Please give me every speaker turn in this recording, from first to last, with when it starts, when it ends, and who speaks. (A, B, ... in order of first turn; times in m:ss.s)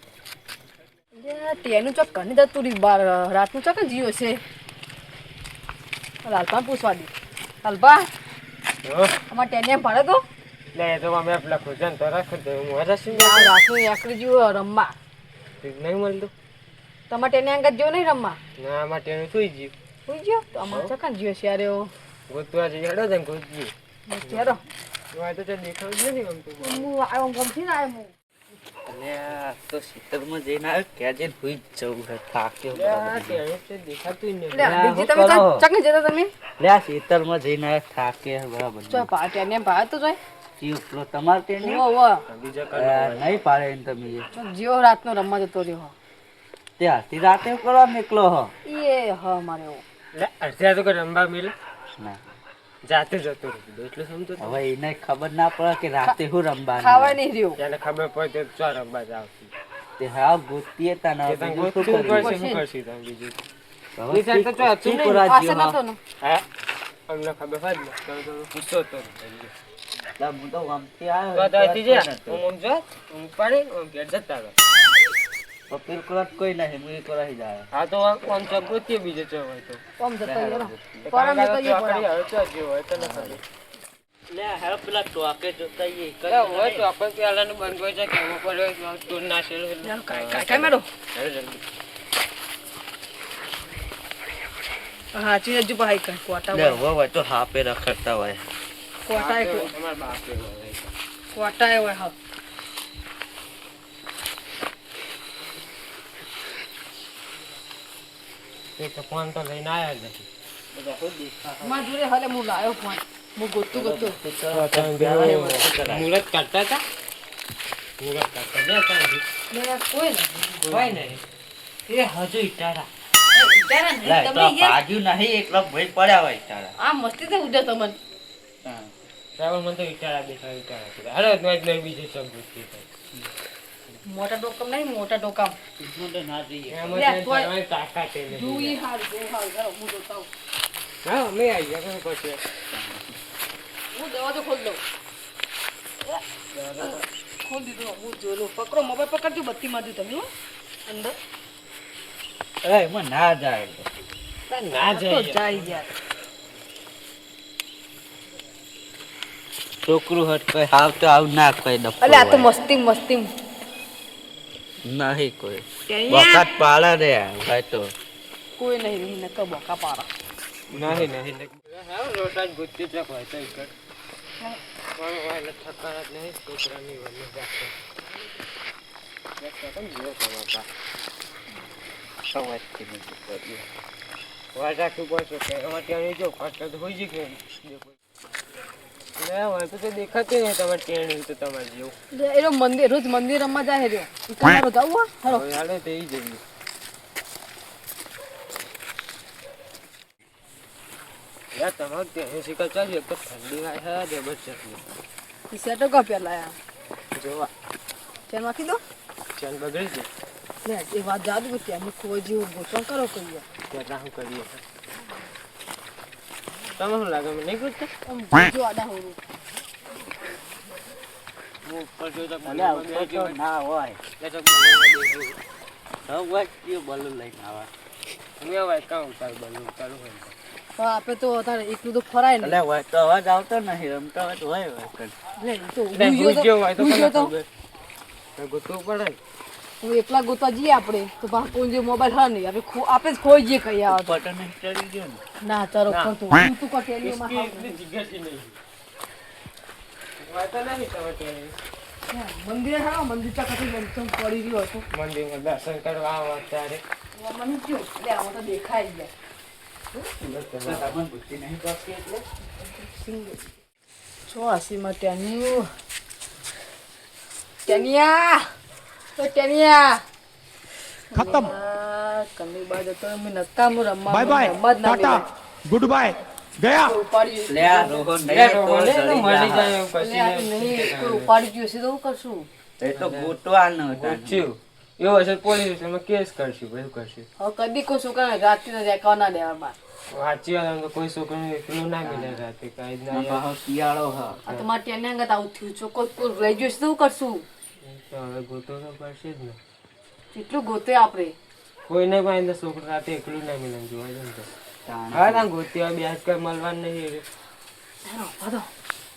0:01.2-0:04.4 A
0:06.2-0:07.1 A
0:07.6-0:08.1 A
0:08.8-0:09.2 B
0:09.3-0:10.2 A
0:10.8-0:13.6 B
0:13.1-0:15.0 A
0:15.6-0:16.3 B
0:17.1-0:18.4 A
0:18.6-0:19.7 B
0:20.1-0:21.9 A
0:22.3-0:23.7 B
0:24.1-0:24.6 A
0:24.3-0:24.6 B
0:25.1-0:26.9 B
0:26.6-0:28.1 A
0:28.9-0:30.0 B
0:30.0-0:33.4 C
0:32.7-0:34.8 B
0:34.5-0:36.3 A
0:34.6-0:35.7 C
0:36.6-0:39.1 C
0:38.9-0:40.2 A
0:40.6-0:41.8 C
0:41.6-0:42.2 A
0:42.3-0:43.4 B
0:42.7-0:44.2 C
0:44.3-0:45.9 A
0:46.8-0:48.5 C
0:48.7-0:49.8 A
0:50.2-0:51.6 B
0:52.9-0:54.6 B
0:54.4-0:57.2 C
0:56.8-0:57.6 A
0:57.6-0:59.5 B
1:00.0-1:02.4 C
1:01.2-1:03.4 B
1:01.9-1:02.6 A
1:04.0-1:05.8 C
1:04.1-1:05.2 B
1:05.2-1:06.0 A
1:07.1-1:09.5 B
1:10.2-1:12.4 C
1:11.3-1:14.5 B
1:15.7-1:17.7 C
1:17.7-1:19.8 B
1:20.0-1:22.1 A
1:20.2-1:21.0 C
1:21.0-1:23.4 B
1:23.0-1:23.4 C
1:24.3-1:26.9 C
1:26.3-1:31.6 B
1:29.8-1:30.8 A
1:35.1-1:36.8 A
1:36.5-1:38.4 C
1:39.0-1:39.7 A
1:39.1-1:40.9 B
1:41.3-1:42.2 A
1:48.8-1:50.3 B
1:50.8-1:51.8 C
1:51.6-1:54.2 A
1:53.7-1:56.1 C
1:54.5-1:56.8 B
1:58.0-1:59.2 B
1:59.5-2:00.7 A
2:00.6-2:01.2 B
2:00.7-2:01.0 C
2:01.9-2:02.9 C
2:03.3-2:04.8 A
2:04.0-2:06.7 C
2:06.8-2:08.0 A
2:08.6-2:08.9 C
2:09.4-2:12.9 B
2:14.0-2:15.6 A
2:15.8-2:17.0 C
2:16.7-2:18.8 B
2:16.9-2:17.5 A
2:18.3-2:20.3 A
2:21.0-2:22.4 B
2:22.7-2:23.2 C
2:23.9-2:24.8 A
2:26.5-2:27.0 B
2:26.8-2:30.3 A
2:30.9-2:31.2 A
2:32.6-2:33.9 C
2:34.5-2:35.7 B
2:34.9-2:35.9 A
2:39.8-2:42.5 C
2:42.0-2:43.3 A
2:44.8-2:47.9 C
2:45.9-2:46.5 A
2:48.6-2:50.1 A
2:50.7-2:53.7 B
2:55.0-2:57.7 B
2:59.4-3:00.7 B
3:02.4-3:03.6 B
3:02.5-3:03.4 C
3:04.6-3:08.0 B
3:09.2-3:12.0 B
3:12.1-3:15.5 A
3:15.2-3:16.4 B
3:21.5-3:24.8 B
3:25.5-3:26.6 A
3:27.1-3:27.5 B
3:28.3-3:28.8 A
3:29.4-3:30.1 B
3:30.6-3:33.5 A
3:33.7-3:34.6 B
3:36.8-3:37.9 B
3:38.0-3:39.2 A
3:41.6-3:43.4 B
3:42.4-3:44.0 C
3:44.2-3:45.4 B
3:46.1-3:47.7 C
3:48.4-3:50.3 B
3:50.8-3:52.6 A
3:52.4-3:55.1 C
3:55.4-3:57.3 A
3:55.9-3:57.5 B
3:58.4-3:59.2 B
3:59.8-4:04.2 A
4:03.9-4:05.2 C
4:05.4-4:07.8 A
4:05.9-4:06.1 B
4:07.0-4:08.6 B
4:10.2-4:11.6 B
4:12.1-4:14.8 A
4:14.9-4:16.8 B
4:17.2-4:19.1 A
4:19.9-4:21.0 B
4:20.6-4:22.2 C
4:22.6-4:23.4 A
4:24.3-4:25.7 A
4:27.6-4:28.5 A
4:29.2-4:30.0 A
4:31.1-4:35.3 A
4:31.2-4:31.5 D
4:34.1-4:36.9 D
4:36.8-4:38.0 A
4:37.5-4:39.8 C
4:38.2-4:41.3 B
4:40.0-4:42.5 A
4:42.8-4:44.5 C
4:42.9-4:47.3 B
4:47.4-4:49.8 A
4:50.1-4:53.5 B
4:52.0-4:52.4 C
4:53.1-4:54.4 C
4:54.5-4:57.4 A
4:57.8-4:59.6 B
5:00.3-5:01.4 A
5:01.9-5:04.5 B
5:04.8-5:05.5 C
5:05.1-5:07.2 B
5:08.0-5:08.7 A